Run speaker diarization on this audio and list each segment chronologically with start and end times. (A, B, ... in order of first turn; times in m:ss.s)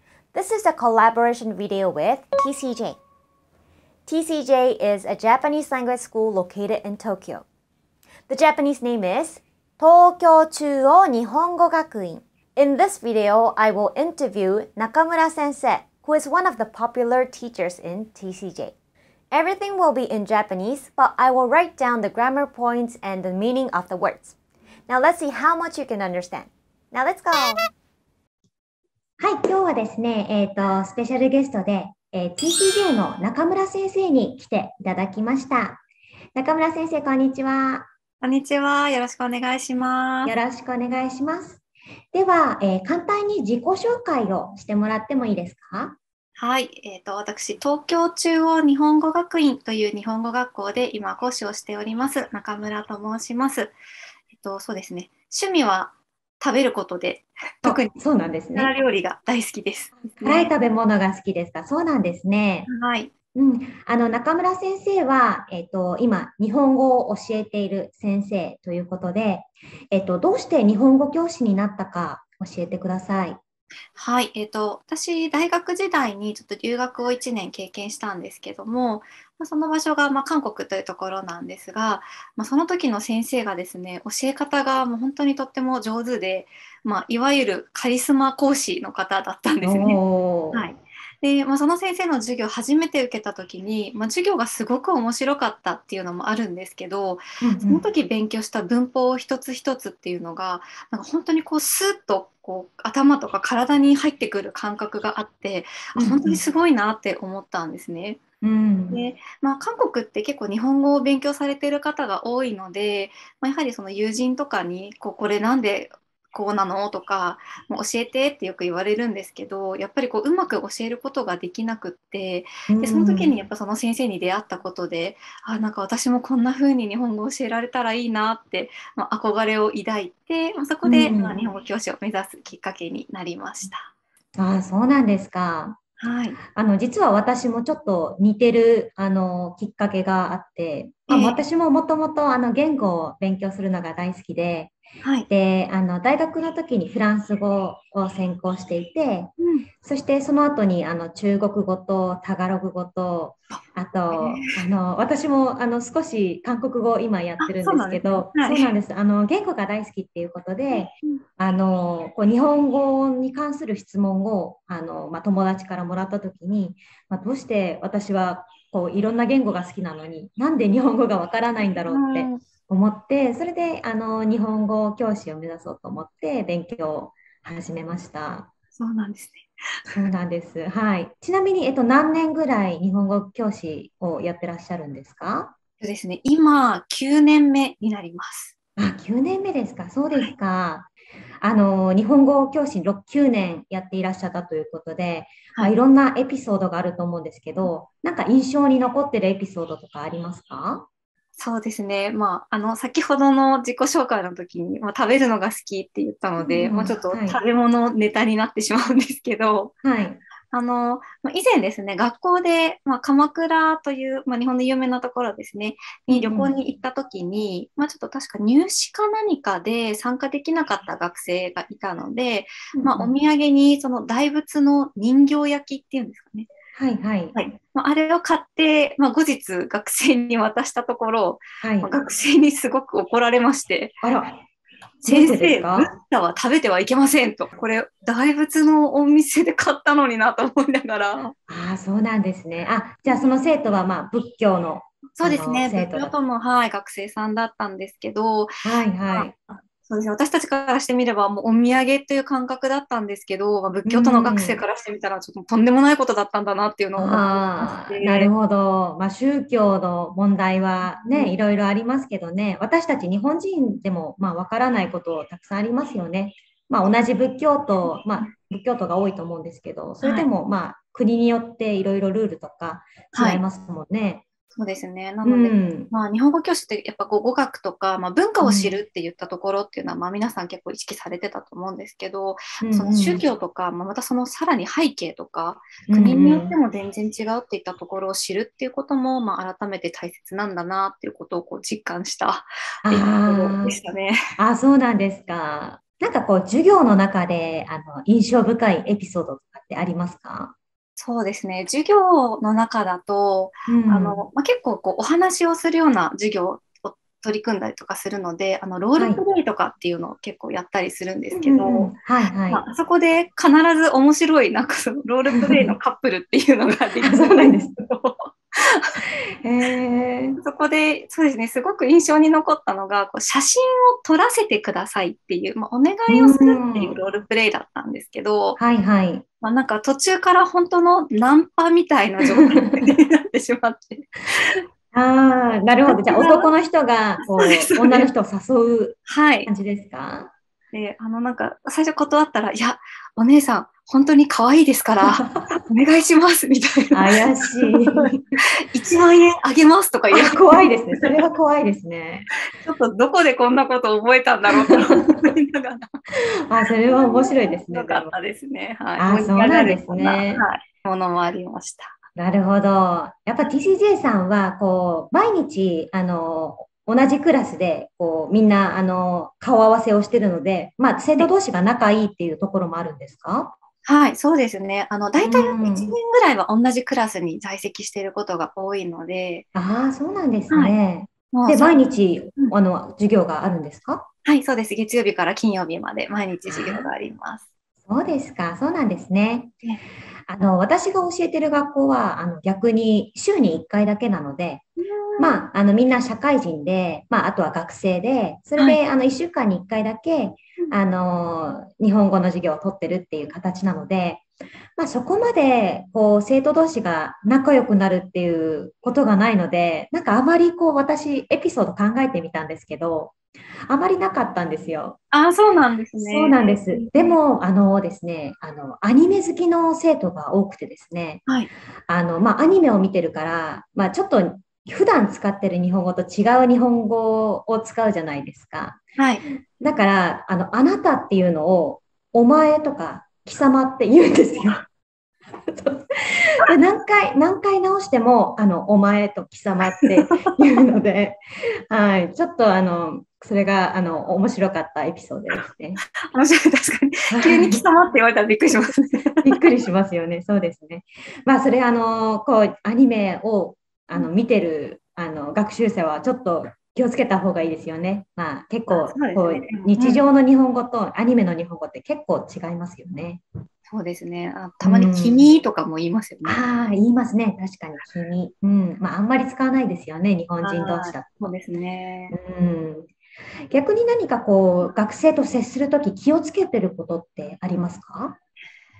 0:00.3-0:03.0 A
0:04.1-0:07.4 A
0:08.3-0:18.7 A
0:19.3-0:24.3 A
0:24.9-0:27.6 A
0:29.2-0:35.8 B
0:36.3-0:37.9 B
0:38.2-0:40.3 C
0:40.2-0:41.6 B
0:42.1-0:46.0 B
0:46.4-0:53.8 C
0:54.3-0:58.0 C
0:57.6-0:58.7 B
0:58.5-1:00.5 C
1:00.0-1:02.7 B
1:02.7-1:03.1 C
1:03.3-1:13.4 B
1:14.0-1:30.0 C
1:29.6-1:30.6 B
1:30.5-1:48.2 C
1:37.4-1:37.8 B
1:45.9-1:46.4 B
1:48.4-1:49.0 B
1:48.9-2:13.9 C
2:02.7-2:03.3 B
2:10.8-2:11.4 B
2:14.4-2:15.8 B
2:16.0-2:16.4 C
2:16.4-2:24.7 B
2:21.1-2:21.4 C
2:25.0-2:25.3 C
2:25.3-2:29.3 B
2:29.4-2:29.6 C
2:29.8-2:58.5 B
2:34.1-2:34.6 C
2:37.4-2:38.7 C
2:40.7-2:41.2 C
2:51.8-2:52.4 C
2:58.7-3:00.0 C
2:59.9-3:05.5 B
3:05.8-3:08.5 C
3:08.8-3:10.9 B
3:11.4-3:20.9 B
3:21.4-3:29.7 C
3:26.4-3:27.4 B
3:29.8-3:30.2 B
3:30.5-3:46.5 C
3:36.1-3:36.6 B
3:42.8-3:43.1 B
3:46.7-3:47.4 B
3:47.3-3:54.0 C
3:51.6-3:51.9 B
3:54.0-3:54.4 B
3:55.0-3:55.9 B
3:55.0-4:01.3 C
4:01.5-4:06.1 B
4:05.2-4:18.3 C
4:08.6-4:09.3 B
4:13.8-4:14.6 B
4:17.0-4:34.2 B
4:20.8-4:21.4 C
4:30.0-4:30.3 C
4:33.1-4:33.4 C
4:34.5-4:54.2 C
4:35.2-4:35.9 B
4:38.4-4:38.7 B
4:42.6-4:43.2 B
4:45.9-4:46.6 B
4:52.8-4:53.8 B
4:54.4-5:00.5 B
5:01.0-5:11.9 C
5:03.7-5:04.2 B
5:11.3-5:12.6 B
5:12.5-5:19.0 C
5:15.3-5:15.7 B
5:17.0-5:17.8 B
5:19.4-5:20.4 B
5:20.4-5:28.6 C
5:26.1-5:26.9 B
5:28.6-5:29.2 B
5:29.4-5:34.6 C
5:32.2-5:32.8 B
5:34.9-5:40.3 B
5:35.9-5:36.5 C
5:37.2-5:38.1 C
5:39.1-5:39.5 C
5:40.7-5:48.1 C
5:45.0-5:45.5 B
5:46.9-5:48.2 B
5:48.7-5:51.3 C
5:50.1-5:52.3 B
5:52.5-5:56.0 C
5:54.6-5:55.0 B
5:56.4-5:58.1 B
5:56.8-6:01.9 C
5:59.0-6:00.4 B
6:02.2-6:13.5 B
6:13.8-6:19.4 C
6:15.2-6:16.0 B
6:19.5-6:24.0 B
6:20.5-6:20.8 C
6:21.3-6:21.8 C
6:24.2-6:27.4 C
6:26.5-6:26.9 B
6:27.8-6:29.5 B
6:30.3-6:34.6 B
6:34.8-6:35.5 C
6:35.2-6:44.2 B
6:44.8-6:53.2 B
6:53.7-6:55.0 B
6:55.1-6:57.2 C
6:56.0-7:01.2 B
7:01.9-7:08.8 B
7:09.0-7:09.2 C
7:09.6-7:14.6 B
7:15.5-7:25.8 B
7:25.9-7:29.4 C
7:27.1-7:27.6 B
7:29.2-7:43.2 B
7:38.7-7:40.1 C
7:43.7-7:46.4 C
7:44.6-7:45.3 B
7:46.2-7:51.3 B
7:50.4-7:52.2 C
7:52.1-7:52.9 B
7:53.5-7:58.2 B